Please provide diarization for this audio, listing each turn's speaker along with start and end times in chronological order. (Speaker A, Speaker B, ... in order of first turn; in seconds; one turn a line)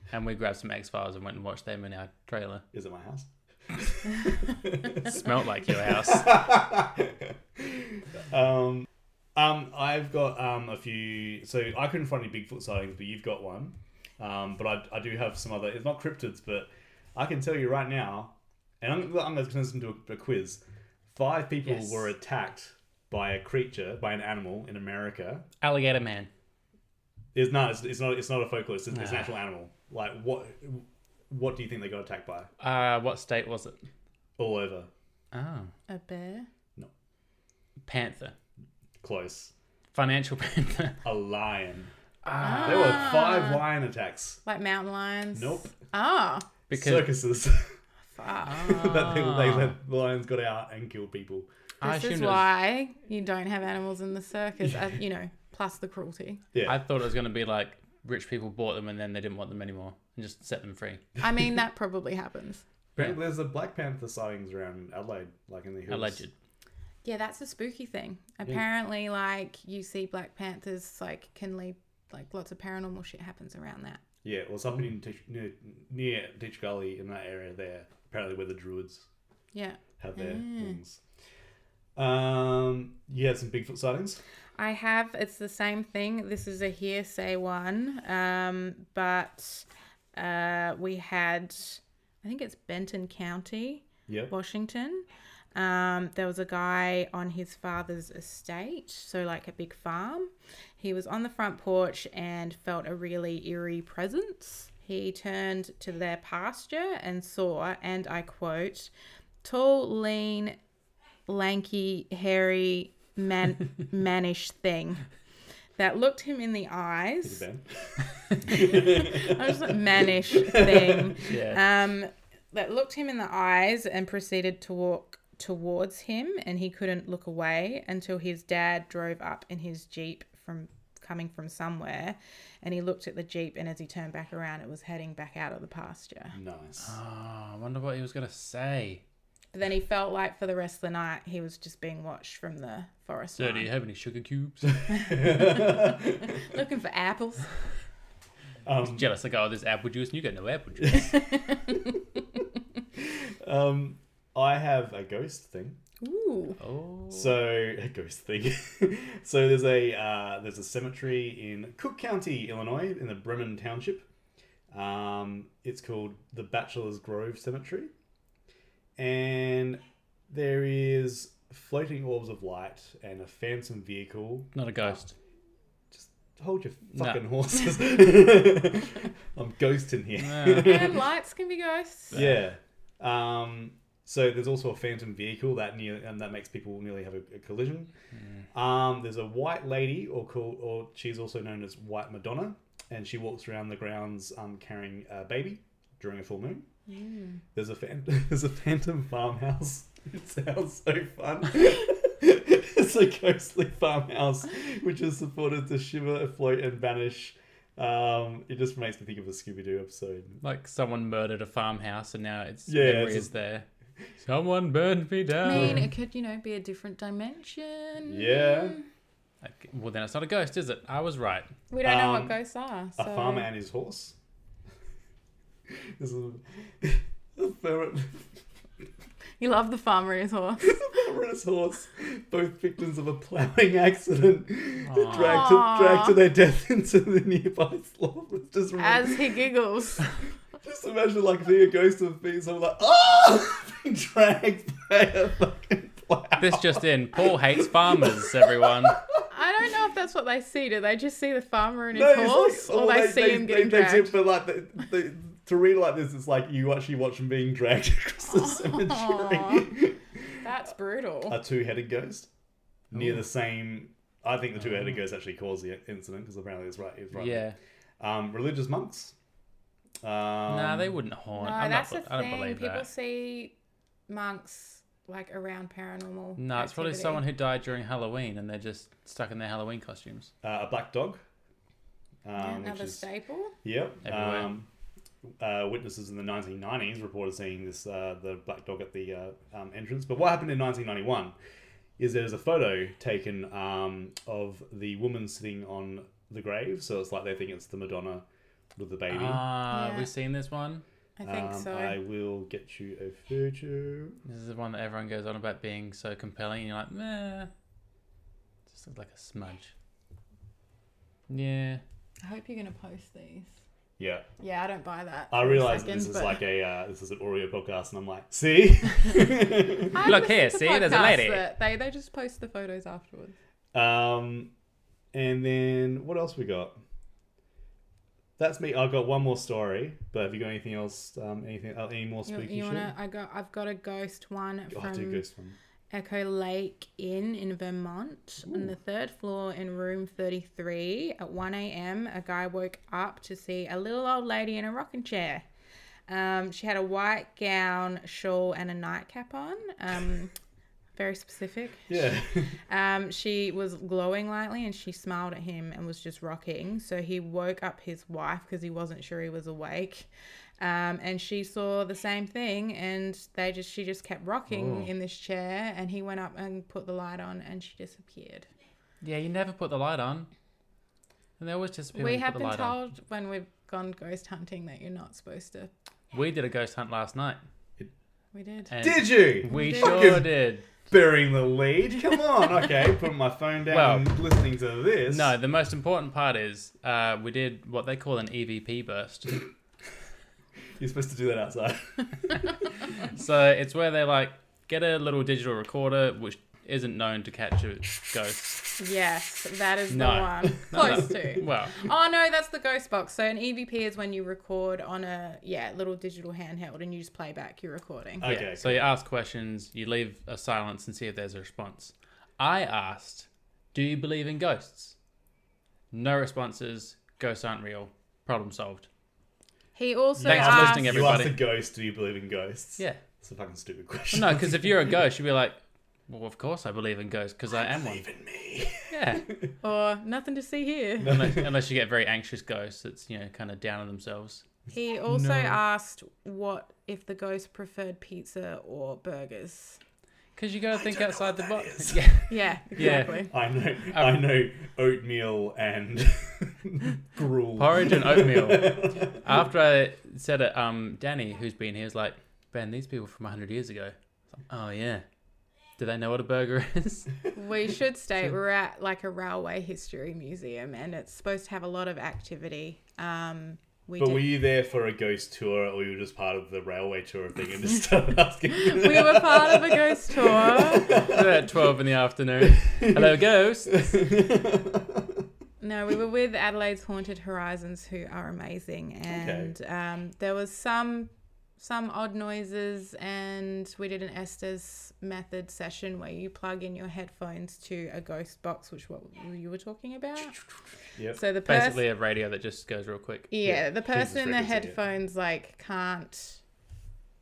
Speaker A: 0.1-2.6
Speaker B: 2.7-25.5
Speaker A: 5.0-6.4
Speaker A: 21.6-22.1
Speaker A: 25.6-26.3
Speaker B: 27.4-32.5
Speaker A: 28.9-29.3
Speaker A: 32.6-33.8
Speaker B: 34.4-34.9
Speaker A: 35.3-35.7
Speaker C: 35.9-36.5
Speaker A: 37.8-38.4
Speaker B: 39.0-39.5
Speaker A: 39.9-41.0
Speaker B: 41.0-41.9
Speaker A: 42.2-43.2
Speaker C: 42.3-43.7
Speaker B: 42.6-44.4
Speaker C: 44.5-46.5
Speaker B: 45.3-45.7
Speaker A: 46.7-47.1
Speaker B: 46.7-47.8
Speaker C: 48.1-49.0
Speaker A: 48.4-49.8
Speaker B: 48.6-51.5
Speaker A: 51.8-52.5
Speaker C: 51.8-56.4
Speaker B: 54.6-54.9
Speaker B: 56.5-56.8
Speaker A: 56.6-61.0
Speaker C: 61.2-62.6
Speaker B: 63.0-66.2
Speaker A: 65.9-66.3
Speaker C: 67.0-74.0
Speaker B: 74.2-79.1
Speaker C: 79.5-80.8
Speaker B: 80.0-81.0
Speaker B: 82.0-84.2
Speaker C: 84.6-108.9
Speaker B: 94.1-94.3
Speaker C: 109.4-110.6
Speaker C: 111.3-115.0
Speaker C: 115.8-117.4
Speaker B: 117.2-121.2
Speaker C: 118.4-136.4
Speaker A: 121.2-121.6
Speaker B: 136.3-136.9
Speaker A: 136.8-139.0
Speaker C: 139.5-143.7
Speaker A: 143.4-144.8
Speaker B: 144.7-146.4
Speaker C: 144.9-147.6
Speaker B: 148.7-149.1
Speaker A: 148.8-151.2
Speaker C: 150.9-151.9
Speaker B: 153.0-155.8
Speaker C: 156.0-156.6
Speaker A: 156.6-157.4
Speaker B: 157.1-164.1
Speaker B: 164.7-167.9
Speaker B: 169.0-175.0
Speaker A: 174.5-175.1
Speaker B: 175.9-181.0
Speaker A: 177.0-177.2
Speaker A: 180.2-180.8
Speaker C: 180.6-182.2
Speaker B: 182.1-187.9
Speaker B: 188.5-196.7
Speaker C: 196.9-197.4
Speaker B: 197.6-210.4
Speaker A: 210.4-213.7
Speaker B: 212.7-213.3
Speaker A: 214.2-215.9
Speaker C: 215.4-218.8
Speaker B: 215.5-215.9
Speaker B: 218.1-218.8
Speaker A: 219.4-221.5
Speaker C: 221.7-223.5
Speaker B: 221.8-222.3
Speaker B: 223.0-224.2
Speaker B: 225.7-228.3
Speaker C: 229.4-230.9
Speaker B: 230.6-239.2
Speaker A: 234.9-235.4
Speaker C: 235.1-236.2
Speaker C: 238.8-240.2
Speaker B: 240.6-249.2
Speaker A: 246.4-249.0
Speaker C: 249.3-254.2
Speaker B: 251.9-260.4
Speaker C: 258.2-259.8
Speaker C: 260.4-261.4
Speaker B: 261.3-262.3
Speaker B: 262.9-269.1
Speaker A: 264.6-265.0
Speaker A: 267.1-267.6
Speaker B: 270.0-270.9
Speaker A: 270.5-272.9
Speaker C: 271.4-273.5
Speaker C: 274.1-277.2
Speaker A: 276.4-280.3
Speaker B: 280.4-281.2
Speaker B: 282.2-283.1
Speaker C: 282.4-283.6
Speaker B: 283.6-284.7
Speaker A: 284.0-284.5
Speaker B: 285.4-291.4
Speaker B: 292.0-298.2
Speaker B: 298.8-299.4
Speaker A: 299.1-300.8
Speaker C: 299.7-300.1
Speaker C: 301.2-302.0
Speaker B: 301.2-304.2
Speaker A: 304.2-307.5
Speaker A: 308.7-309.7
Speaker A: 311.3-311.8
Speaker C: 312.2-313.5
Speaker B: 314.0-314.3
Speaker C: 314.4-316.4
Speaker B: 315.3-320.2
Speaker C: 319.9-323.4
Speaker A: 320.0-321.4
Speaker B: 323.7-324.5
Speaker B: 325.1-326.8
Speaker B: 328.4-332.9
Speaker C: 332.3-335.2
Speaker B: 334.7-335.6
Speaker C: 335.9-345.4
Speaker B: 338.4-338.7
Speaker C: 346.1-350.3
Speaker C: 351.0-352.0
Speaker B: 351.9-352.6
Speaker C: 352.7-360.1
Speaker C: 360.6-368.5
Speaker A: 364.5-364.9
Speaker A: 369.0-370.3
Speaker A: 371.4-372.8
Speaker C: 371.9-375.7
Speaker A: 376.1-377.4
Speaker C: 378.3-378.7
Speaker A: 378.7-380.6
Speaker B: 378.8-380.3
Speaker C: 379.5-380.2
Speaker B: 380.9-385.3
Speaker A: 383.7-384.1
Speaker A: 385.1-389.4
Speaker B: 390.8-392.4
Speaker A: 393.1-398.6
Speaker C: 398.8-408.3
Speaker A: 399.9-401.8
Speaker B: 400.7-401.1
Speaker B: 408.2-408.9
Speaker A: 408.2-415.0
Speaker A: 415.9-418.9
Speaker C: 419.8-420.9
Speaker B: 420.2-424.9
Speaker A: 420.2-421.4
Speaker A: 424.1-428.1
Speaker B: 427.6-429.5
Speaker A: 428.9-429.3
Speaker C: 429.6-431.2
Speaker B: 431.0-431.5
Speaker A: 431.0-434.5
Speaker C: 434.7-439.8
Speaker B: 435.2-435.5
Speaker A: 440.4-443.3
Speaker B: 440.7-442.2
Speaker C: 442.3-443.3
Speaker B: 442.8-449.3
Speaker A: 443.9-444.2
Speaker A: 447.6-453.9
Speaker A: 454.5-455.1
Speaker A: 455.8-457.1
Speaker C: 457.3-464.4
Speaker B: 464.0-471.4
Speaker C: 468.5-471.1
Speaker A: 471.0-473.9
Speaker B: 472.4-473.1
Speaker B: 473.7-475.3
Speaker C: 475.6-490.4
Speaker B: 479.1-479.6
Speaker C: 491.1-491.8
Speaker A: 491.4-493.3
Speaker C: 493.3-496.4
Speaker B: 493.4-494.8